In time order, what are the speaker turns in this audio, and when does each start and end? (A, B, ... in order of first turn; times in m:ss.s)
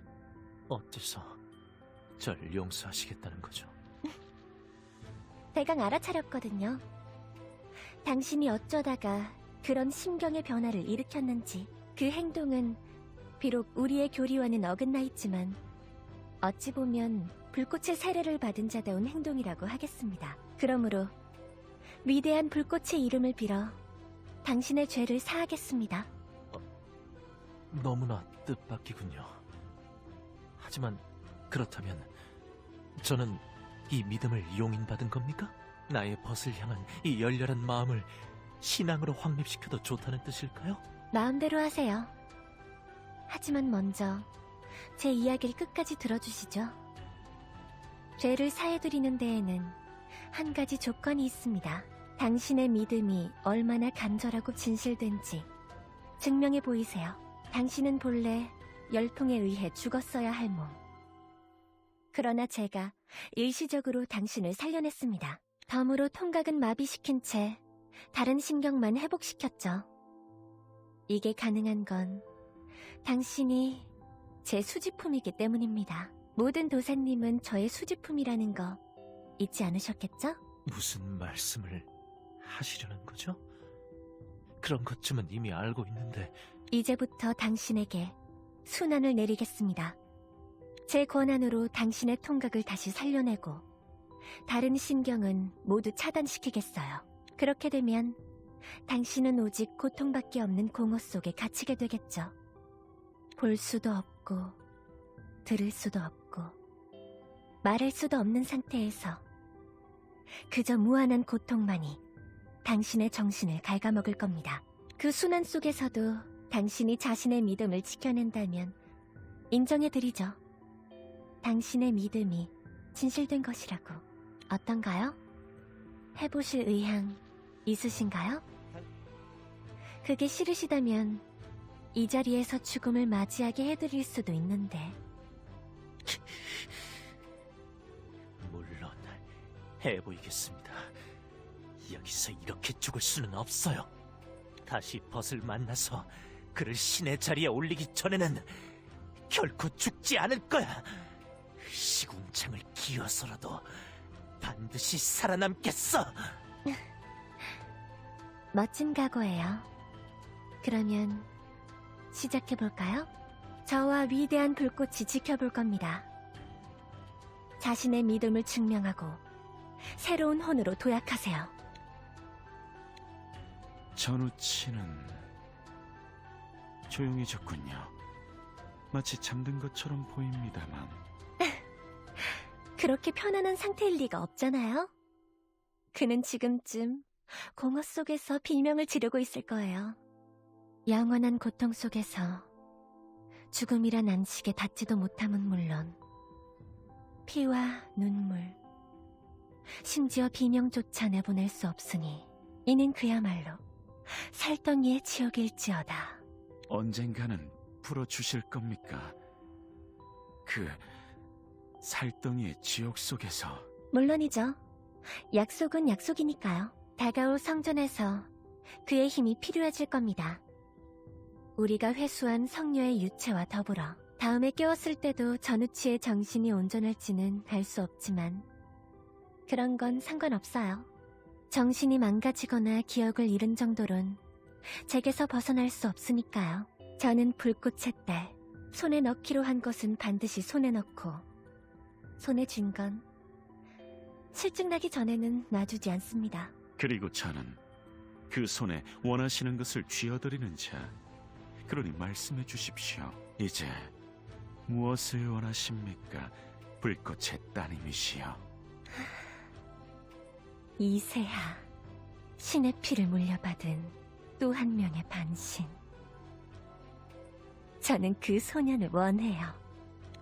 0:00.7-0:01.4 A
0:02.2-0:03.7 A
0:05.5-0:06.8 B
0:08.0-0:12.8 B
0:13.4-0:15.6 B
0:16.4-0:21.1 B
0:22.0-0:23.8 B
0:24.4-0:26.1 B
0:27.7-0:29.4 A
0:30.6-0:32.1 A
0:33.0-0:38.1 A
0:38.6-0:40.8 A
0:41.1-0:42.1 B
0:43.3-0:44.3 B
0:45.0-0:46.8 B
0:48.2-0:55.5 B
0:56.2-1:00.8 B
1:02.1-1:09.9 B
1:11.1-1:12.2 B
1:13.0-1:13.9 B
1:14.4-1:18.8 B
1:19.4-1:20.4 B
1:20.7-1:21.9 A
1:22.4-1:23.4 A
1:24.6-1:26.4 A
1:26.7-1:30.0 B
1:30.9-1:33.6 B
1:34.5-1:38.2 B
1:38.8-1:42.3 B
1:43.4-1:44.6 B
1:45.4-1:46.6 B
1:47.6-1:49.2 B
1:50.5-1:52.0 B
1:52.6-1:58.8 B
1:59.5-2:00.4 B
2:01.4-2:05.2 B
2:06.2-2:08.4 B
2:10.0-2:11.3 B
2:11.9-2:15.0 B
2:18.4-2:19.2 A
2:19.8-2:20.9 A
2:21.8-2:23.9 A
2:24.6-2:28.7 A
2:29.3-2:33.8 A
2:34.4-2:36.4 A
2:38.5-2:39.7 B
2:40.6-2:41.3 B
2:42.1-2:43.1 B
2:43.6-2:46.1 B
2:47.6-2:49.2 B
2:49.9-2:51.5 B
2:54.0-2:55.3 C
2:56.9-2:57.9 C
2:58.9-3:01.0 C
3:02.8-3:04.9 B
3:05.9-3:10.0 B
3:10.9-3:12.5 B
3:13.5-3:16.0 B
3:17.3-3:18.6 B
3:19.8-3:26.2 B
3:26.7-3:29.2 C
3:30.4-3:30.9 C
3:31.8-3:33.7 C
3:33.9-3:34.6 B
3:35.3-3:38.3 B
3:38.8-3:40.4 B
3:41.6-3:48.5 B
3:49.5-3:50.9 B
3:51.5-4:01.2 B
4:02.2-4:03.0 B
4:04.3-4:06.5 B
4:06.8-4:07.6 C
4:08.3-4:11.0 C
4:11.7-4:13.9 C
4:14.7-4:18.4 C
4:20.8-4:21.7 B
4:22.4-4:25.8 B
4:27.8-4:29.6 B